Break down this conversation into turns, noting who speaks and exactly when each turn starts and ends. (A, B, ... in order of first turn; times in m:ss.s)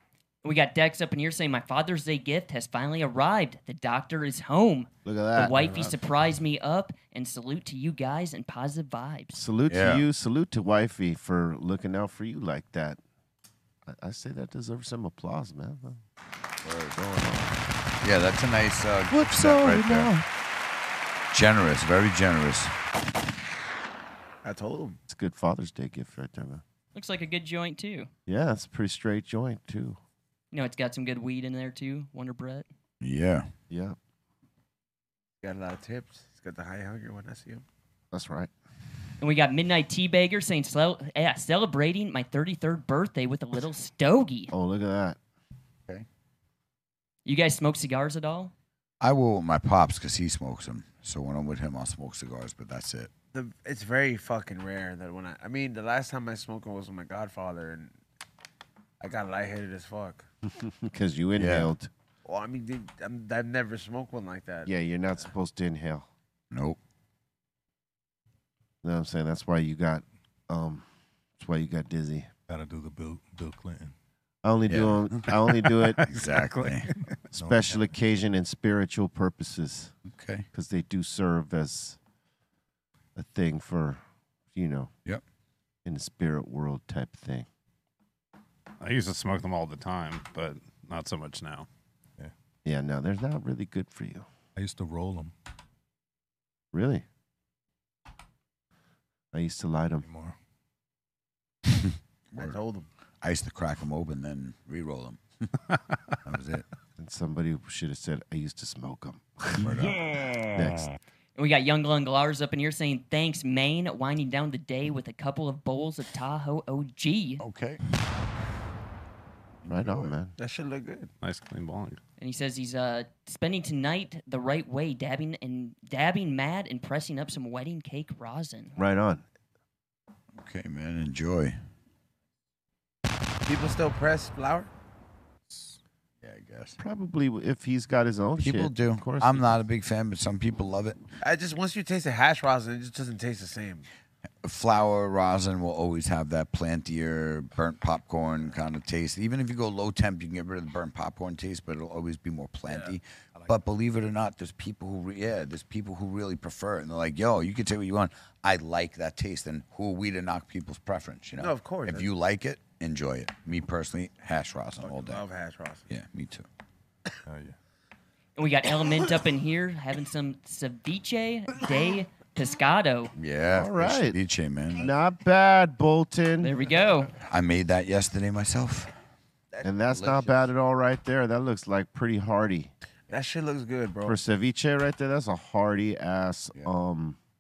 0:00.4-0:09.4 A
0:05.0-0:05.9 B
0:09.3-0:13.0 B
0:09.7-0:10.0 C
0:13.9-0:16.0 B
0:16.6-0:17.0 C
0:17.0-0:17.6 B
0:18.0-0:20.1 C
0:19.1-0:20.3 B
0:21.3-0:22.7 C
0:24.4-0:25.0 D
0:25.1-0:26.6 B
0:27.0-0:28.1 A
0:28.3-0:30.0 B
0:30.5-0:32.7 A
0:33.0-0:33.5 C
0:33.7-0:34.0 B
0:35.4-0:37.6 D
0:38.1-0:38.5 B
0:39.2-0:44.5 A
0:44.5-0:45.2 B
0:47.3-0:48.5 A
0:49.0-0:53.1 C
0:53.3-0:57.9 D
0:59.0-1:00.3 D
1:00.5-1:01.9 B
1:01.4-1:01.7 C
1:02.2-1:04.7 D
1:04.7-1:06.1 B
1:06.5-1:06.8 C
1:08.8-1:10.9 B
1:11.4-1:12.3 B
1:12.5-1:13.9 E
1:14.4-1:16.0 B
1:14.7-1:16.9 C
1:16.3-1:16.7 F
1:17.3-1:19.9 B
1:17.4-1:17.8 E
1:20.1-1:20.5 C
1:20.5-1:22.0 B
1:23.2-1:24.0 B
1:24.5-1:24.9 B
1:25.8-1:27.5 B
1:28.8-1:31.7 F
1:32.6-1:34.3 B
1:34.6-1:35.3 E
1:36.7-1:37.0 B
1:39.3-1:40.0 B
1:40.0-1:40.4 E
1:42.3-1:42.6 C
1:42.4-1:42.9 D
1:43.2-1:45.2 C
1:46.2-1:46.6 C
1:47.0-1:50.0 B
1:49.6-1:50.0 C
1:50.5-1:50.9 B
1:51.4-1:57.4 A
1:57.4-1:57.8 C
1:59.6-2:00.1 C
1:59.7-2:00.3 B
2:00.4-2:01.1 D
2:01.2-2:02.0 F
2:02.2-2:08.8 A
2:08.8-2:09.2 B
2:10.4-2:11.6 C
2:13.5-2:14.7 D
2:16.2-2:16.8 C
2:16.8-2:19.6 B
2:18.4-2:21.0 C
2:21.2-2:23.9 D
2:24.4-2:45.2 C
2:41.4-2:42.1 D
2:44.8-2:45.9 D
2:45.9-2:46.5 C
2:47.3-2:47.6 E
2:48.4-2:53.1 A
2:53.2-2:54.9 C
2:53.5-2:54.2 B
2:54.8-2:56.5 B
2:56.4-2:57.1 A
2:57.2-2:58.9 C
2:59.5-3:00.2 D
2:59.6-3:02.7 B
3:03.1-3:04.2 D
3:04.0-3:07.2 B